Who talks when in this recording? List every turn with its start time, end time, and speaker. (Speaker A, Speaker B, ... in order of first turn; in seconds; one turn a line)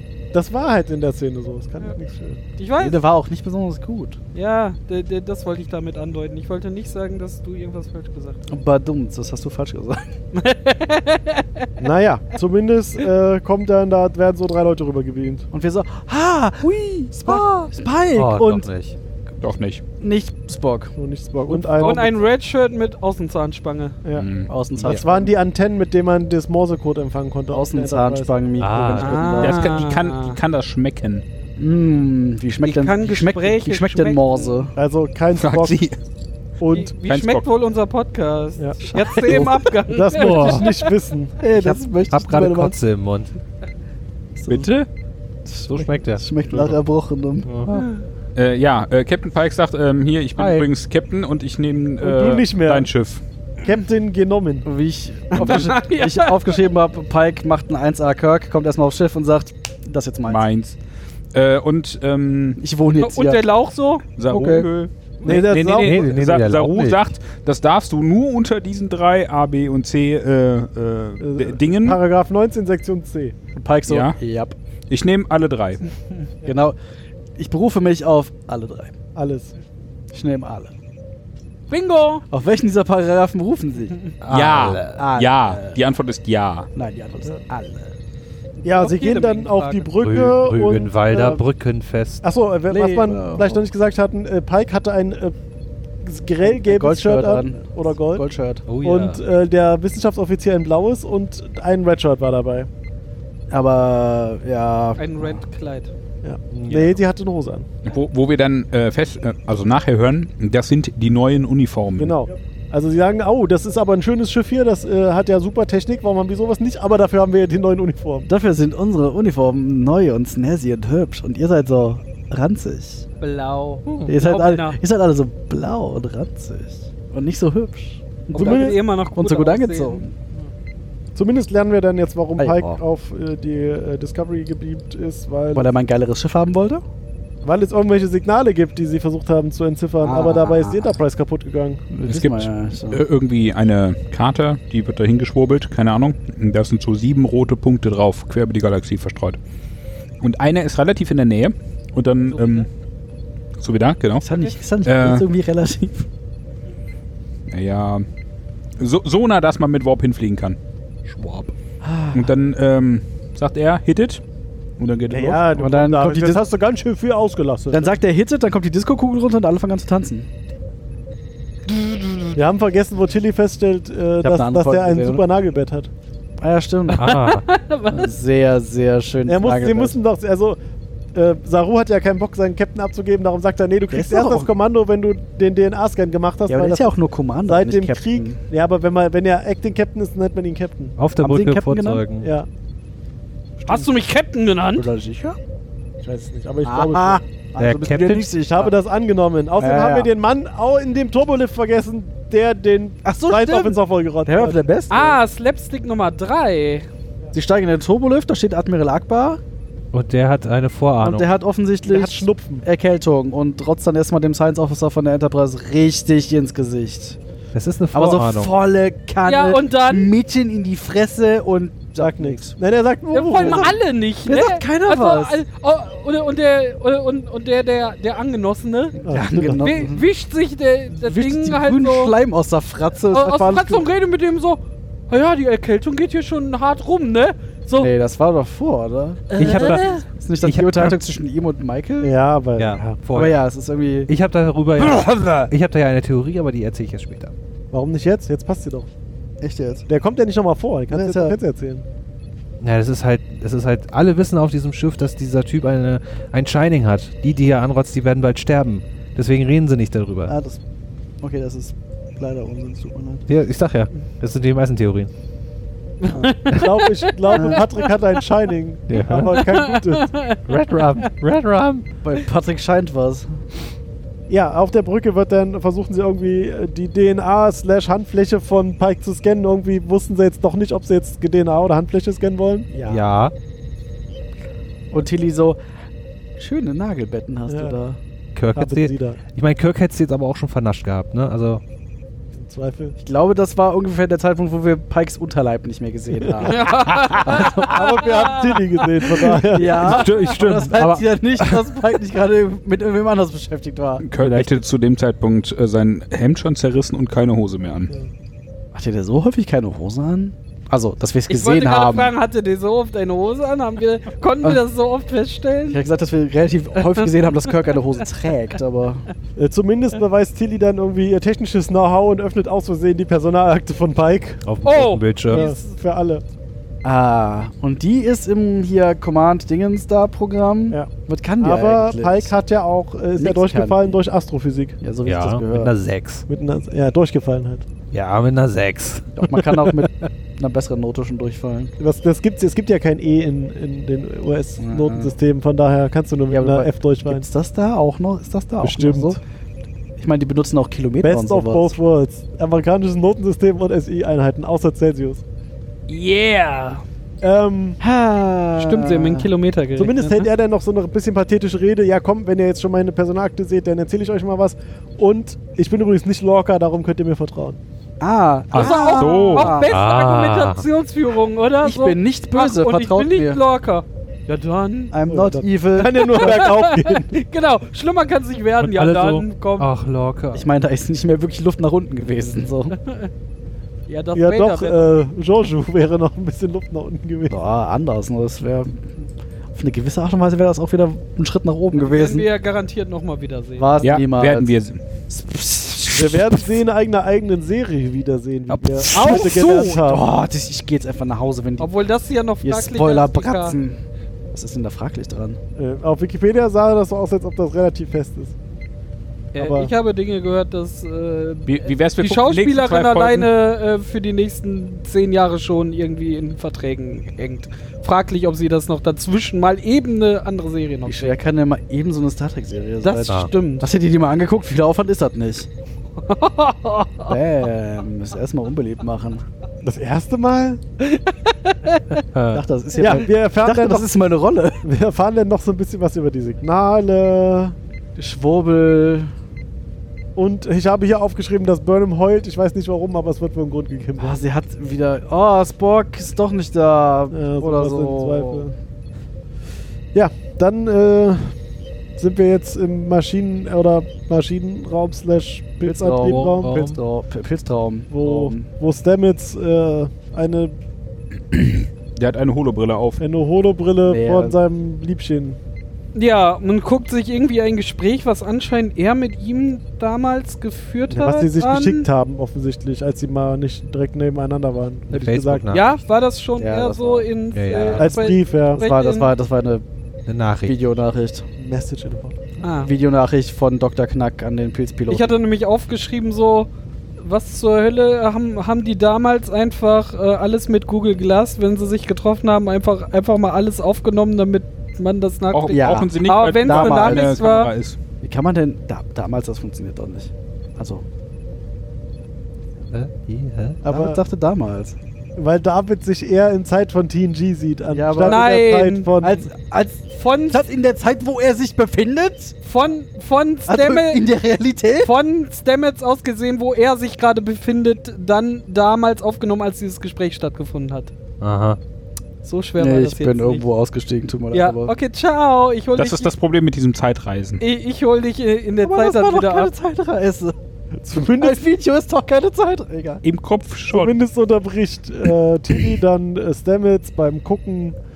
Speaker A: 0.3-2.4
Speaker B: 2.6-3.0
Speaker C: 2.8-4.2
Speaker B: 4.3-8.4
Speaker C: 8.5-10.1
Speaker B: 10.3-11.7
Speaker A: 11.8-15.5
Speaker C: 15.5-18.7
Speaker D: 17.3-18.9
Speaker E: 19.4-19.8
Speaker C: 20.0-20.9
Speaker A: 21.0-22.2
Speaker C: 21.5-21.9
Speaker B: 21.8-24.0
Speaker E: 24.2-24.5
Speaker C: 24.5-25.3
Speaker A: 24.8-28.4
Speaker C: 27.5-29.7
Speaker D: 28.6-29.2
Speaker B: 29.0-30.4
Speaker E: 29.4-31.2
Speaker C: 31.6-34.8
Speaker B: 32.6-34.7
Speaker A: 34.8-35.8
Speaker E: 35.4-36.0
Speaker A: 36.6-36.9
Speaker B: 36.7-40.9
Speaker E: 37.1-37.5
Speaker C: 38.8-39.6
Speaker A: 39.9-41.7
Speaker D: 40.1-40.7
Speaker C: 41.4-42.8
Speaker D: 41.7-43.3
Speaker C: 44.4-44.9
Speaker E: 44.5-44.8
Speaker C: 45.5-47.9
Speaker D: 45.7-46.8
Speaker D: 47.5-47.8
Speaker B: 47.7-48.0
Speaker E: 48.4-53.2
Speaker D: 50.4-50.7
Speaker A: 52.0-52.9
Speaker A: 53.6-54.7
Speaker C: 54.6-60.4
Speaker B: 55.4-56.6
Speaker E: 60.3-60.8
Speaker E: 61.3-62.6
Speaker C: 62.6-63.5
Speaker B: 63.0-64.1
Speaker E: 64.2-72.0
Speaker C: 64.3-64.7
Speaker A: 65.2-66.1
Speaker D: 65.8-67.0
Speaker A: 71.2-73.3
Speaker C: 73.5-74.6
Speaker E: 73.9-74.2
Speaker E: 74.9-75.8
Speaker C: 76.4-76.8
Speaker C: 77.4-78.9
Speaker A: 79.2-79.5
Speaker C: 80.1-80.7
Speaker B: 81.7-82.2
Speaker C: 82.3-84.0
Speaker D: 84.2-85.0
Speaker E: 84.3-86.7
Speaker C: 84.9-85.8
Speaker C: 86.8-88.0
Speaker A: 88.6-91.4
Speaker B: 88.7-89.9
Speaker D: 90.0-92.2
Speaker A: 92.2-95.4
Speaker C: 92.7-93.6
Speaker A: 96.0-98.2
Speaker C: 96.4-98.6
Speaker D: 98.7-99.2
Speaker A: 98.8-102.7
Speaker C: 103.5-105.4
Speaker B: 105.0-105.9
Speaker A: 106.2-107.7
Speaker D: 106.5-107.0
Speaker E: 107.8-112.2
Speaker A: 112.0-118.3
Speaker C: 118.3-123.1
Speaker B: 123.2-124.8
Speaker C: 124.1-130.1
Speaker B: 128.3-130.1
Speaker A: 128.3-128.8
Speaker A: 131.2-135.7
Speaker C: 132.4-132.8
Speaker C: 135.5-136.8
Speaker A: 137.4-141.8
Speaker C: 140.0-141.0
Speaker C: 141.9-143.0
Speaker E: 142.1-149.4
Speaker E: 150.2-152.7
Speaker B: 152.3-152.7
Speaker E: 153.6-154.2
Speaker C: 154.2-156.1
Speaker E: 154.8-155.3
Speaker E: 157.5-158.1
Speaker E: 158.8-160.6
Speaker D: 161.1-161.5
Speaker C: 161.8-162.3
Speaker E: 162.1-164.2
Speaker E: 164.8-165.4
Speaker A: 165.1-168.0
Speaker C: 165.5-166.4
Speaker C: 167.7-170.3
Speaker A: 172.3-175.9
Speaker C: 174.2-175.2
Speaker C: 176.4-177.3
Speaker D: 176.9-177.4
Speaker B: 177.1-178.1
Speaker C: 177.9-180.0
Speaker A: 179.3-180.6
Speaker A: 181.1-186.9
Speaker C: 183.9-184.5
Speaker C: 186.5-188.4
Speaker A: 187.5-190.9
Speaker D: 191.0-192.3
Speaker C: 191.2-192.0
Speaker A: 192.2-192.5
Speaker A: 193.6-193.9
Speaker B: 193.7-194.9
Speaker C: 194.8-195.4
Speaker A: 196.0-197.2
Speaker C: 196.7-198.7
Speaker D: 197.6-198.3
Speaker A: 198.4-204.6
Speaker C: 199.6-200.1
Speaker C: 203.1-205.2
Speaker B: 204.9-206.9
Speaker C: 207.3-209.4
Speaker D: 209.9-211.3
Speaker C: 211.0-217.2
Speaker A: 211.9-212.7
Speaker D: 217.5-218.6
Speaker C: 217.9-222.6
Speaker B: 219.2-220.1
Speaker A: 222.0-223.8
Speaker B: 223.1-229.0
Speaker C: 223.3-225.4
Speaker A: 229.0-229.8
Speaker C: 229.0-230.1
Speaker B: 229.6-232.2
Speaker C: 231.0-233.9
Speaker B: 233.1-237.9
Speaker C: 237.8-242.1
Speaker B: 239.3-240.0
Speaker D: 239.4-241.0
Speaker A: 242.0-243.0
Speaker D: 242.6-243.4
Speaker C: 243.1-244.1
Speaker D: 244.1-247.3
Speaker A: 247.7-248.9
Speaker C: 249.4-249.9
Speaker A: 249.9-251.9
Speaker C: 250.9-251.4
Speaker D: 252.6-260.3
Speaker C: 260.3-260.6
Speaker C: 261.2-263.2
Speaker D: 263.3-265.1
Speaker B: 266.0-267.6
Speaker C: 266.1-266.3
Speaker A: 266.5-270.1
Speaker C: 267.3-267.6
Speaker D: 268.9-269.4
Speaker B: 269.3-270.4
Speaker D: 270.5-271.9
Speaker C: 272.0-273.3
Speaker A: 274.3-283.0
Speaker D: 282.9-283.3
Speaker C: 284.9-285.6
Speaker C: 286.4-288.0
Speaker A: 287.5-287.8
Speaker D: 288.4-291.6
Speaker A: 288.6-289.2
Speaker A: 292.3-293.0
Speaker C: 293.0-296.7
Speaker A: 296.2-296.6
Speaker B: 296.4-298.6
Speaker E: 296.9-297.2
Speaker C: 297.2-297.8
Speaker A: 297.3-300.0
Speaker C: 299.4-304.1
Speaker E: 299.8-300.9
Speaker D: 300.8-301.7
Speaker E: 304.0-307.9
Speaker D: 304.2-304.5
Speaker C: 308.7-312.1
Speaker B: 311.3-315.8
Speaker C: 315.7-319.1
Speaker B: 316.8-317.4
Speaker A: 319.4-324.4
Speaker D: 324.4-325.4
Speaker B: 324.6-325.8
Speaker A: 325.3-326.2
Speaker C: 326.8-332.4
Speaker A: 330.7-334.8
Speaker C: 333.2-334.0
Speaker C: 334.8-335.7
Speaker D: 335.1-336.3
Speaker A: 336.3-337.7
Speaker D: 337.9-339.9
Speaker C: 339.2-341.7
Speaker A: 341.8-347.3
Speaker C: 344.6-345.1
Speaker C: 346.3-349.2
Speaker A: 348.6-349.2
Speaker C: 350.0-351.7
Speaker A: 351.0-355.2
Speaker B: 355.9-356.8
Speaker A: 357.2-357.8
Speaker C: 357.8-359.3
Speaker B: 358.6-360.3
Speaker A: 359.8-367.6
Speaker C: 368.0-369.7
Speaker E: 368.5-369.6
Speaker B: 368.6-374.9
Speaker D: 369.7-370.6
Speaker C: 371.6-373.4
Speaker C: 374.9-376.5
Speaker A: 375.1-377.1
Speaker B: 375.8-379.7
Speaker D: 378.6-380.5
Speaker C: 380.3-382.8
Speaker B: 382.9-383.1
Speaker B: 383.9-384.9
Speaker A: 384.1-387.4
Speaker C: 387.3-388.9
Speaker C: 389.5-392.3
Speaker B: 391.7-393.9
Speaker C: 393.6-394.5
Speaker E: 393.8-394.8
Speaker C: 395.1-396.4
Speaker A: 395.9-400.0
Speaker C: 398.5-401.7
Speaker B: 398.9-399.7
Speaker B: 401.6-403.6
Speaker C: 402.4-403.8
Speaker C: 404.3-405.4
Speaker A: 405.6-408.4
Speaker B: 409.3-421.2
Speaker A: 409.4-409.7
Speaker E: 411.5-413.3
Speaker C: 420.9-425.5
Speaker B: 422.8-423.7
Speaker B: 426.0-427.2
Speaker C: 427.1-429.2
Speaker A: 429.6-430.6
Speaker B: 430.8-432.0
Speaker D: 432.1-432.4
Speaker C: 432.3-434.6
Speaker A: 432.8-433.9
Speaker A: 434.6-437.6
Speaker C: 438.0-439.1
Speaker A: 440.2-444.2
Speaker C: 444.0-448.5
Speaker A: 447.1-448.5
Speaker A: 449.9-451.4
Speaker A: 452.0-456.7
Speaker C: 455.6-458.5
Speaker D: 456.0-456.8
Speaker A: 457.9-460.6
Speaker E: 461.3-463.0
Speaker A: 463.0-465.4
Speaker C: 463.9-464.4
Speaker B: 465.9-471.9
Speaker A: 470.9-475.6
Speaker D: 474.9-475.8
Speaker B: 475.5-479.1
Speaker C: 476.4-477.8
Speaker D: 477.3-477.9
Speaker A: 477.8-478.6
Speaker C: 478.6-479.6
Speaker D: 480.1-480.6
Speaker C: 480.4-481.3
Speaker A: 481.4-482.2
Speaker B: 482.4-482.7
Speaker C: 482.6-485.2
Speaker B: 484.9-497.5
Speaker E: 495.3-497.8
Speaker C: 495.5-497.2
Speaker C: 498.0-500.8
Speaker D: 502.7-503.6
Speaker A: 503.6-504.0
Speaker C: 503.6-504.8
Speaker A: 505.2-509.3
Speaker C: 507.7-508.3
Speaker B: 508.0-508.9
Speaker C: 509.0-512.4
Speaker B: 509.9-510.5
Speaker B: 512.5-514.0
Speaker C: 513.5-514.9
Speaker B: 514.8-520.9
Speaker D: 521.2-521.6
Speaker B: 522.2-523.4
Speaker C: 522.6-524.7
Speaker B: 524.3-526.1
Speaker E: 525.8-527.4
Speaker B: 527.4-529.5
Speaker C: 528.6-530.4
Speaker A: 530.8-531.4
Speaker C: 531.0-533.0
Speaker E: 533.0-534.0
Speaker A: 533.7-537.8